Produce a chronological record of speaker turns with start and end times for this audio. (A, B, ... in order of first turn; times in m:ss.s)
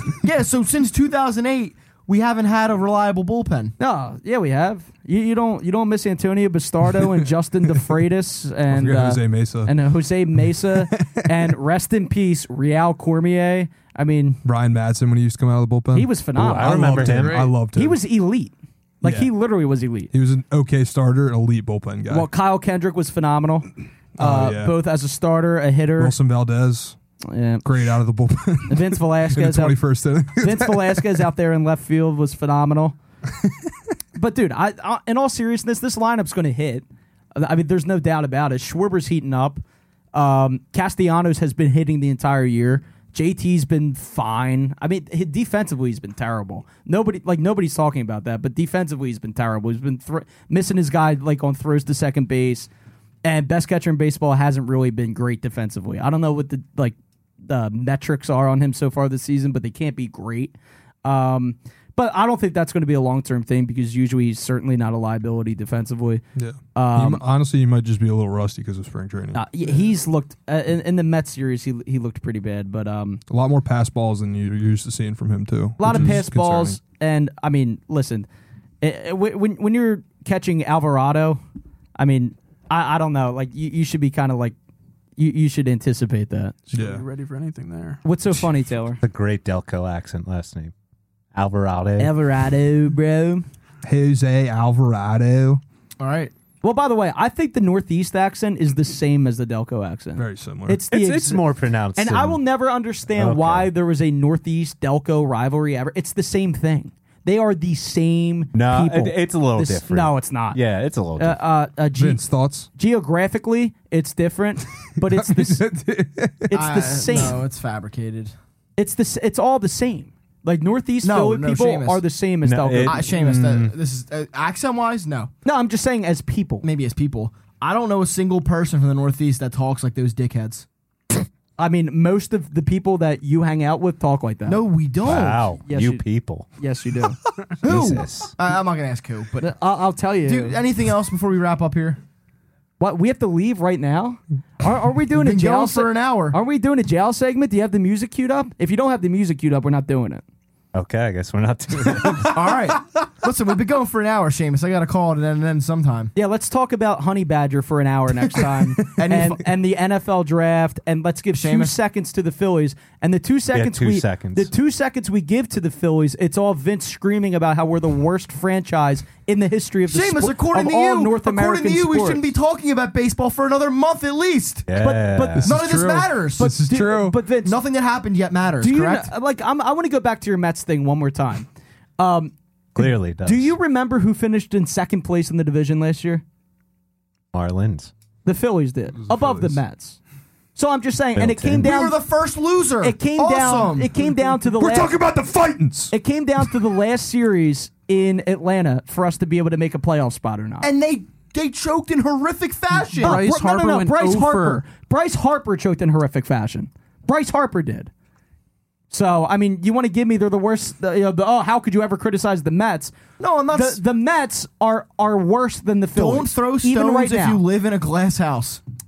0:00.2-0:03.7 A
0:03.8-0:14.4 B
0:06.9-0:07.9 C
0:08.7-0:09.7 C
0:10.4-0:11.5 C
0:14.4-0:18.0 C
0:15.9-0:20.1 B
0:16.4-0:17.4 D
0:17.0-0:17.5 E
0:19.0-0:19.3 C
0:20.1-0:22.3 C
0:22.1-0:26.2 B
0:24.2-0:24.7 C
0:26.0-0:27.0 C
0:27.3-0:27.9 B
0:27.6-0:31.2 C
0:28.7-0:29.8 B
0:30.3-0:33.0 B
0:33.4-0:33.7 C
0:34.2-0:39.6 B
0:40.1-0:52.7 B
0:53.2-0:57.0 B
0:57.5-1:00.5 B
1:01.0-1:06.2 B
1:06.4-1:09.8 C
1:06.8-1:07.2 B
1:09.3-1:13.2 B
1:13.3-1:16.8 C
1:15.8-1:18.3 B
1:18.8-1:21.4 B
1:22.0-1:24.6 B
1:25.2-1:26.6 B
1:26.7-1:28.0 E
1:26.7-1:27.0 C
1:28.0-1:29.0 B
1:29.0-1:30.7 D
1:31.3-1:32.1 D
1:32.0-1:33.5 B
1:33.8-1:35.6 C
1:36.0-1:36.3 A
1:36.6-1:50.6 B
1:40.2-1:40.8 C
1:40.9-1:42.4 D
1:43.1-1:43.7 D
1:48.5-1:51.4 D
1:51.2-1:52.2 B
1:51.9-1:52.7 C
1:52.8-1:55.7 B
1:54.9-1:56.5 C
1:56.5-1:57.4 B
1:56.5-1:58.3 A
1:58.8-2:03.1 B
2:01.0-2:02.0 A
2:02.4-2:03.7 D
2:02.8-2:05.3 A
2:05.4-2:06.7 B
2:06.6-2:10.7 A
2:11.6-2:14.6 B
2:14.5-2:15.5 A
2:15.0-2:16.5 D
2:15.7-2:17.2 B
2:17.6-2:19.5 A
2:17.6-2:18.3 D
2:19.4-2:20.6 B
2:20.2-2:22.0 A
2:22.8-2:30.2 B
2:25.2-2:26.4 A
2:30.7-2:32.5 D
2:32.3-2:36.1 A
2:36.2-2:52.3 B
2:38.8-2:39.5 A
2:41.3-2:41.8 A
2:43.5-2:44.5 D
2:49.9-2:54.7 A
2:54.7-2:55.5 D
2:54.8-2:55.5 B
2:55.4-2:56.6 A
2:55.4-2:57.2 C
2:56.4-2:57.5 B
2:57.4-2:59.1 A
2:58.6-3:01.5 B
3:02.0-3:06.2 B
3:02.8-3:03.6 D
3:07.3-3:07.9 D
3:08.2-3:10.0 B
3:08.9-3:09.6 C
3:10.6-3:12.0 B
3:11.2-3:11.7 D
3:11.6-3:13.9 A
3:12.8-3:15.0 B
3:14.6-3:16.5 C
3:15.9-3:20.7 B
3:20.6-3:23.2 A
3:23.0-3:27.9 B
3:23.0-3:24.6 E
3:28.9-3:32.9 B
3:33.2-3:33.8 A
3:33.5-3:37.4 B
3:36.0-3:38.6 A